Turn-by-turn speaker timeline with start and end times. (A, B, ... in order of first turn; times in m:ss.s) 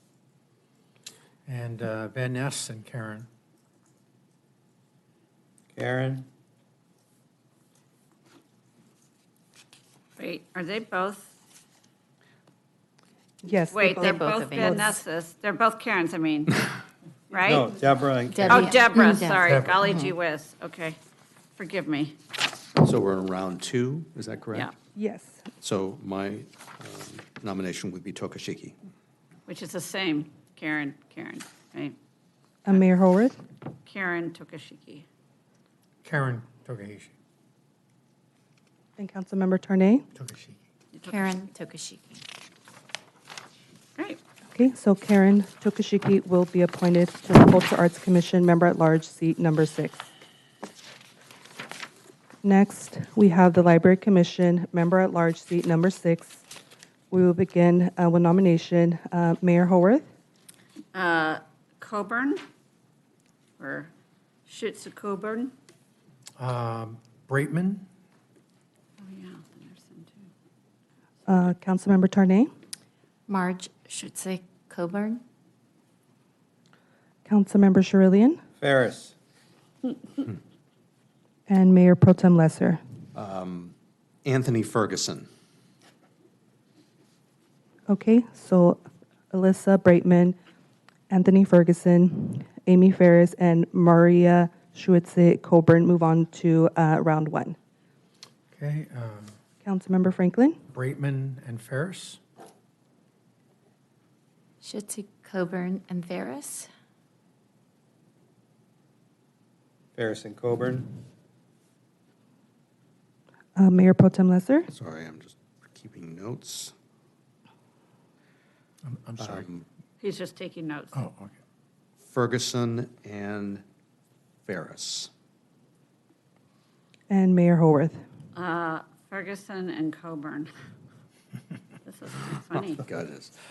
0:01.4-0:03.3 A
0:05.7-0:06.2 B
0:10.2-0:11.3 C
0:13.4-0:14.9 D
0:13.7-0:16.6 C
0:13.9-0:14.9 E
0:17.3-0:17.7 C
0:17.4-0:18.8 B
0:18.3-0:20.1 E
0:18.5-0:21.0 C
0:19.5-0:19.8 A
0:21.6-0:22.2 C
0:22.8-0:24.7 F
0:25.0-0:25.4 D
0:25.6-0:28.7 F
0:29.5-0:32.0 C
0:32.6-0:33.4 D
0:33.8-0:35.0 C
0:36.0-0:37.1 A
0:39.0-0:40.0 D
0:40.1-0:40.6 A
0:40.9-0:41.2 C
0:41.0-0:42.2 E
0:44.5-0:50.0 D
0:52.4-0:56.4 D
0:57.1-1:00.0 D
1:00.9-1:02.4 C
1:03.6-1:03.9 C
1:04.5-1:05.5 C
1:06.4-1:07.9 A
1:09.0-1:10.3 C
1:11.3-1:12.5 D
1:13.3-1:15.2 E
1:17.2-1:18.4 D
1:18.6-1:19.1 B
1:21.5-1:22.8 D
1:23.1-1:23.7 F
1:24.2-1:25.3 F
1:27.9-1:30.3 D
1:31.1-1:37.6 D
1:38.5-1:39.3 A
1:39.6-1:40.6 D
1:40.7-1:42.2 A
1:44.6-1:46.7 E
1:50.0-1:50.9 B
1:53.6-1:54.7 D
1:54.7-1:56.7 F
1:58.8-1:59.5 A
1:59.2-1:59.6 F
2:00.0-2:01.0 C
2:00.9-2:01.3 A
2:02.0-2:03.6 F
2:04.4-2:05.1 F
2:07.1-2:08.0 D
2:08.3-2:10.5 C
2:11.8-2:12.8 C
2:12.8-2:13.3 F